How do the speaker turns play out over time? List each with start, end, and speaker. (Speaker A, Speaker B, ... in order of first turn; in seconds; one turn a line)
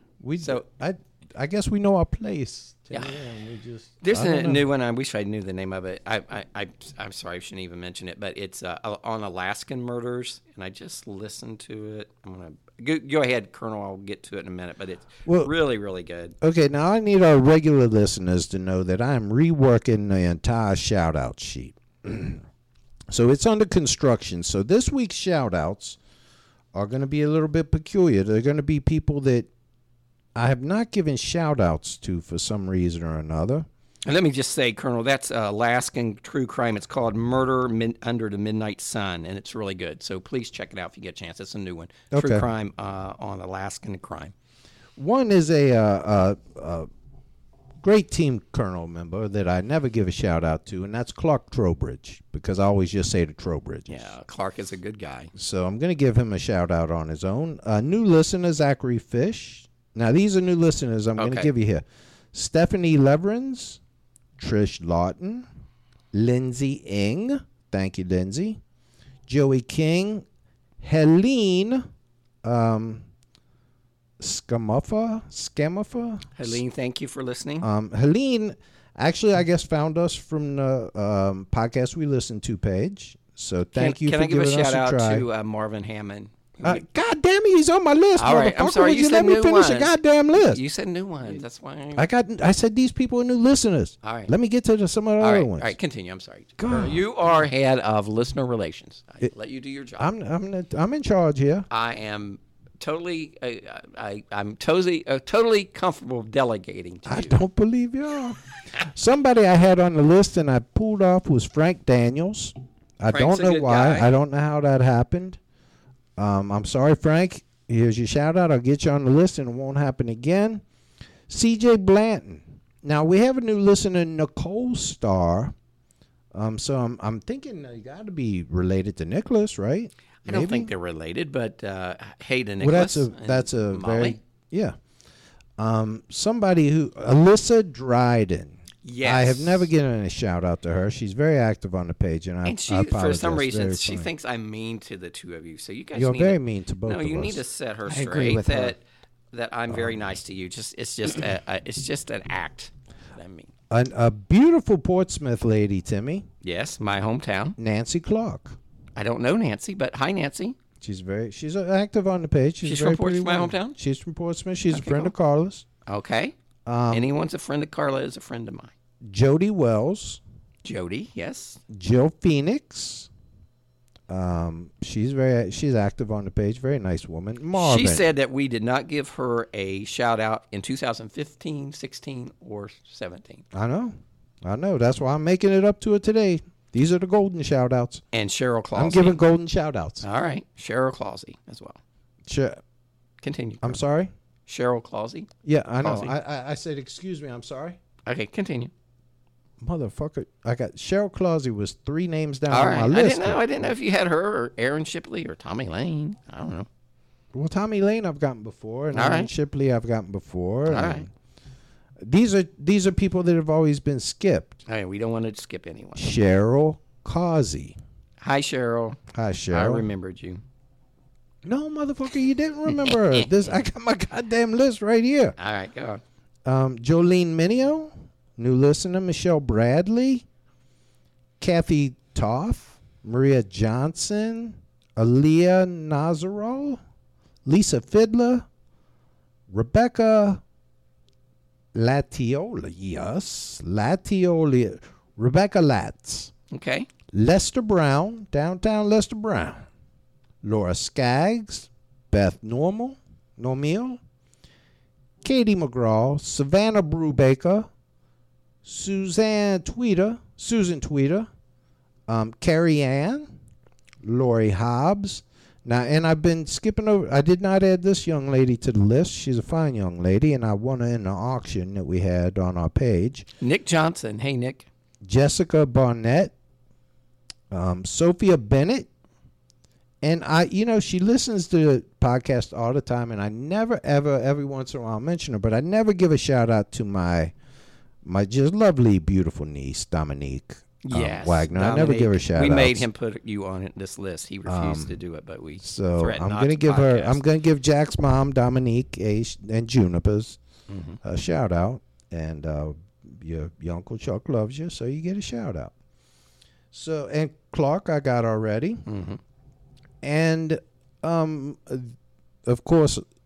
Speaker A: 0.2-4.7
Speaker B: 4.0-16.4
Speaker A: 15.2-15.5
Speaker A: 16.4-22.4
Speaker A: 23.1-26.0
Speaker A: 26.7-29.5
Speaker A: 30.3-33.7
Speaker B: 34.0-44.3
Speaker A: 42.1-42.5
Speaker A: 45.0-46.9
Speaker A: 47.8-54.1
Speaker B: 53.9-55.3
Speaker A: 55.3-63.8
Speaker B: 61.2-61.5
Speaker A: 64.4-65.5
Speaker A: 66.1-68.6
Speaker A: 69.3-70.2
Speaker A: 70.8-71.9
Speaker A: 72.4-73.0
Speaker A: 74.2-76.6
Speaker B: 76.3-77.7
Speaker A: 77.6-85.3
Speaker B: 83.8-86.8
Speaker A: 86.6-90.6
Speaker B: 88.2-92.1
Speaker A: 91.9-95.7
Speaker B: 94.0-94.3
Speaker B: 95.2-100.1
Speaker A: 96.6-97.0
Speaker A: 100.0-101.7
Speaker B: 101.7-107.4
Speaker A: 107.0-115.4
Speaker B: 113.1-114.1
Speaker A: 116.2-120.6
Speaker A: 121.3-125.5
Speaker A: 126.3-130.7
Speaker B: 130.2-134.2
Speaker A: 132.6-134.8
Speaker A: 135.6-144.1
Speaker B: 138.8-139.7
Speaker B: 142.4-153.5
Speaker A: 145.9-148.7
Speaker A: 153.7-156.3
Speaker B: 156.4-157.6
Speaker A: 157.6-158.6
Speaker B: 158.9-160.6
Speaker A: 160.8-165.7
Speaker B: 162.6-163.8
Speaker B: 164.7-165.1
Speaker B: 165.9-166.3
Speaker A: 166.7-167.1
Speaker B: 166.9-168.7
Speaker A: 169.0-170.2
Speaker B: 170.6-171.6
Speaker A: 171.7-173.1
Speaker A: 174.1-178.1
Speaker B: 177.6-183.4
Speaker A: 183.5-188.0
Speaker B: 188.1-189.2
Speaker A: 188.7-190.0
Speaker B: 190.0-191.8
Speaker A: 192.2-192.6
Speaker B: 193.2-193.8
Speaker A: 193.6-194.1
Speaker B: 194.5-195.3
Speaker A: 195.4-197.8
Speaker B: 195.8-196.1
Speaker B: 198.1-198.7
Speaker A: 199.6-203.4
Speaker B: 202.5-206.7
Speaker A: 207.3-211.1
Speaker B: 208.9-209.3
Speaker B: 210.7-211.0
Speaker A: 212.0-214.6
Speaker B: 214.7-216.1
Speaker A: 216.0-217.8
Speaker B: 218.2-220.4
Speaker A: 219.1-219.8
Speaker A: 221.4-225.3
Speaker B: 222.8-223.3
Speaker B: 225.4-226.0
Speaker A: 226.4-230.2
Speaker A: 231.4-236.8
Speaker A: 237.4-238.5
Speaker A: 239.5-240.4
Speaker A: 241.7-246.3
Speaker B: 246.5-246.9
Speaker A: 247.1-249.6
Speaker A: 250.4-254.0
Speaker A: 255.2-257.7
Speaker A: 258.6-261.3
Speaker A: 262.1-263.3
Speaker A: 264.0-273.3
Speaker B: 273.4-274.7
Speaker A: 275.0-276.3
Speaker A: 277.5-278.9
Speaker A: 280.0-287.3
Speaker A: 288.0-292.9
Speaker B: 290.8-297.2
Speaker A: 294.4-295.0
Speaker A: 295.6-300.4
Speaker B: 300.7-301.0
Speaker A: 301.0-305.7
Speaker A: 306.7-308.8
Speaker B: 308.9-309.2
Speaker A: 310.0-313.0